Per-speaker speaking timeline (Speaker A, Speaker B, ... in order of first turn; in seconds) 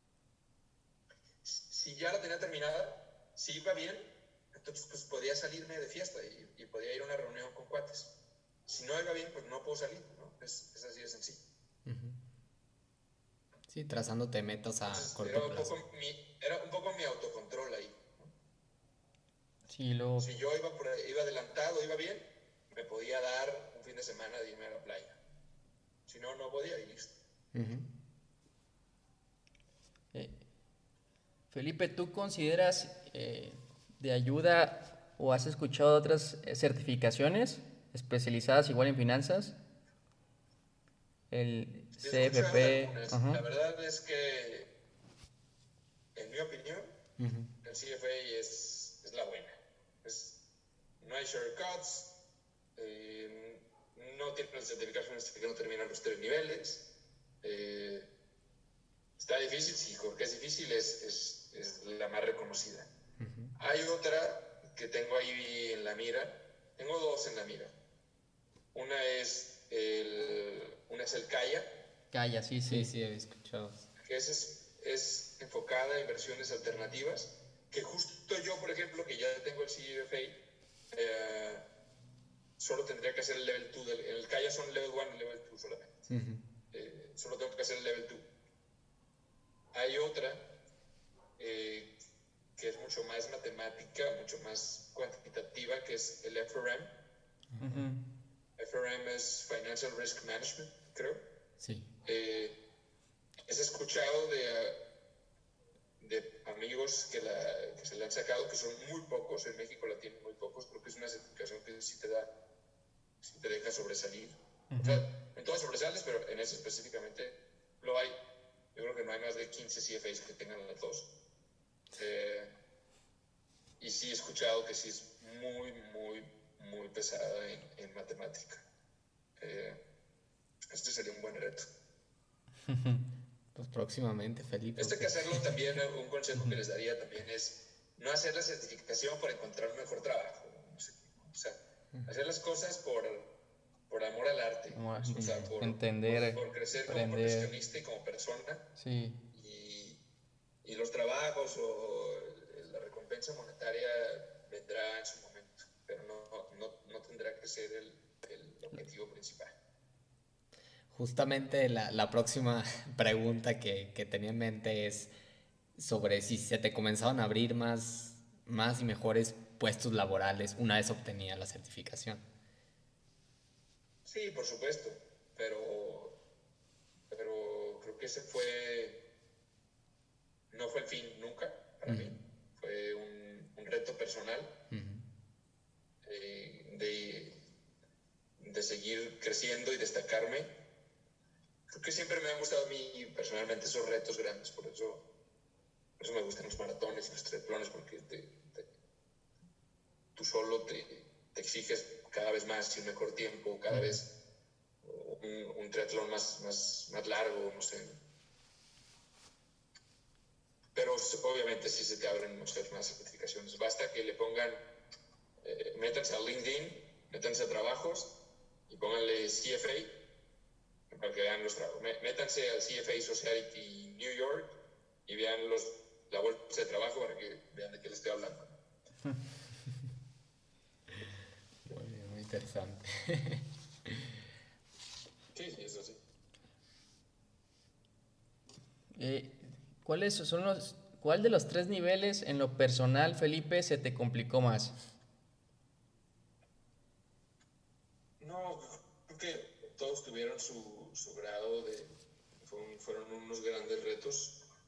Speaker A: 1.4-8.1, 8.7-11.4, 14.9-18.3, 20.2-25.2, 26.1-27.1, 42.0-44.7, 46.1-46.9, 47.6-50.4, 51.0-52.1, 52.8-56.9, 57.4-58.1, 59.2-62.9, 63.6-67.7, 68.7-71.7, 74.0-81.7, 82.6-86.1, 86.7-88.3, 89.7-90.5, 91.4-91.9, 92.6-96.9, 98.6-101.2, 102.0-102.6, 103.5-104.8, 106.0-112.3, 113.2-118.2, 118.7-121.1, 122.0-122.5, 123.8-128.7, 129.4-129.8, 130.7-131.7, 134.8-143.3, 143.9-148.7, 149.3-150.0, 150.6-159.6, 174.1-176.2, 177.1-179.0, 180.5-184.6, 186.0-187.4, 188.4-190.6, 191.7-195.1, 196.0-198.7, 200.1-204.1, 204.8-208.0, 210.7-214.6, 215.4-218.1, 218.7-220.0, 220.9-224.6, 225.1-228.6, 235.3-236.0, 248.2-254.4
Speaker B: 11.8-12.2, 13.7-15.7, 27.5-27.9, 47.2-47.5, 63.2-63.5, 72.6-73.9, 86.1-86.4, 97.5-97.9, 101.6-101.9, 133.6-135.3, 145.1-145.4, 160.9-165.1, 165.8-172.2, 181.9-182.2, 184.7-185.1, 231.7-234.2
Speaker C: 19.7-20.3, 31.5-39.5, 41.3-43.4, 72.1-72.9, 97.6-98.0, 114.7-115.0, 132.7-133.0, 144.7-147.5, 148.8-149.2, 238.9-244.7